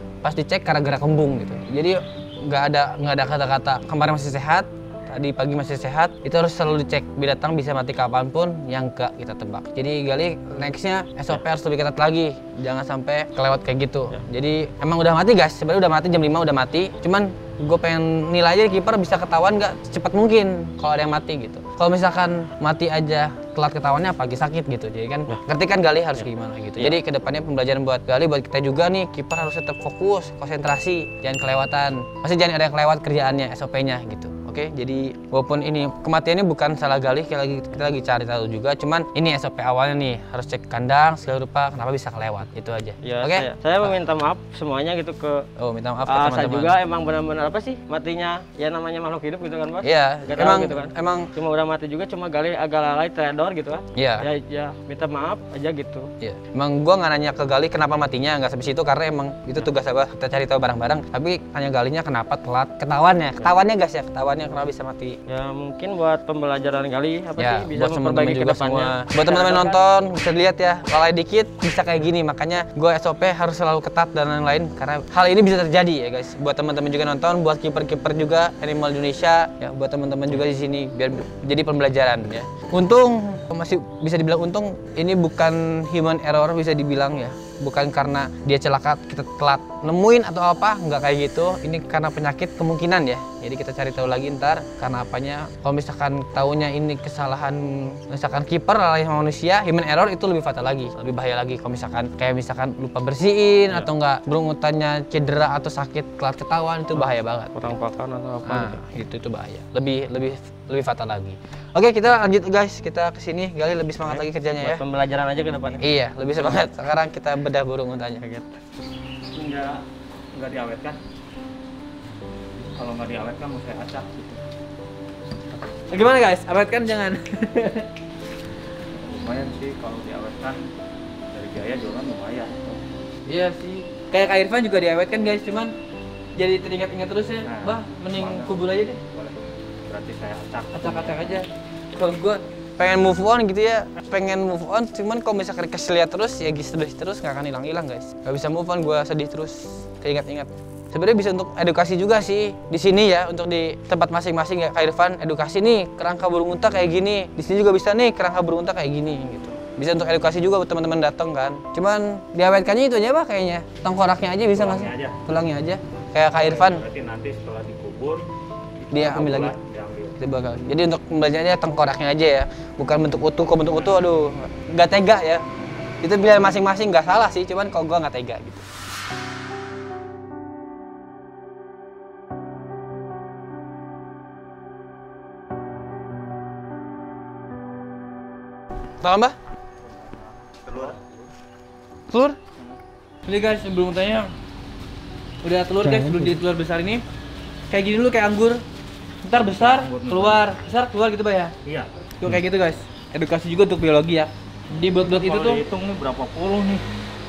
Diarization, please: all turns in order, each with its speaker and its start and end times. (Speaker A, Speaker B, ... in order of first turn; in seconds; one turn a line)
Speaker A: 0.2-43.9
Speaker B: 43.0-45.5
Speaker A: 45.6-46.8
Speaker B: 46.1-56.1
Speaker A: 49.8-51.3
Speaker A: 54.0-54.3
Speaker A: 56.2-65.2
Speaker B: 65.3-69.8
Speaker A: 67.4-107.5
Speaker B: 107.0-108.8
Speaker A: 108.4-114.8
Speaker B: 114.6-115.8
Speaker A: 115.8-118.2
Speaker B: 118.2-118.6
Speaker C: 119.3-119.8
Speaker C: 120.3-121.0
Speaker C: 122.8-124.4
Speaker A: 125.9-127.9
Speaker C: 128.9-130.6
Speaker C: 131.3-132.8
Speaker A: 133.3-135.8
Speaker A: 136.4-139.0
Speaker C: 137.4-141.4
Speaker A: 140.7-166.8
Speaker C: 164.5-165.2
Speaker C: 166.4-168.3
Speaker C: 168.8-170.2
Speaker A: 168.9-169.6
Speaker A: 170.2-175.4
Speaker A: 176.0-178.7
Speaker A: 189.0-189.3
Speaker C: 189.8-191.2
Speaker A: 192.1-192.4
Speaker A: 193.3-194.3
Speaker A: 195.4-197.0
Speaker A: 197.7-198.6
Speaker A: 199.2-201.5
Speaker C: 199.4-200.5
Speaker C: 201.7-202.4
Speaker A: 202.2-205.6
Speaker C: 205.0-206.8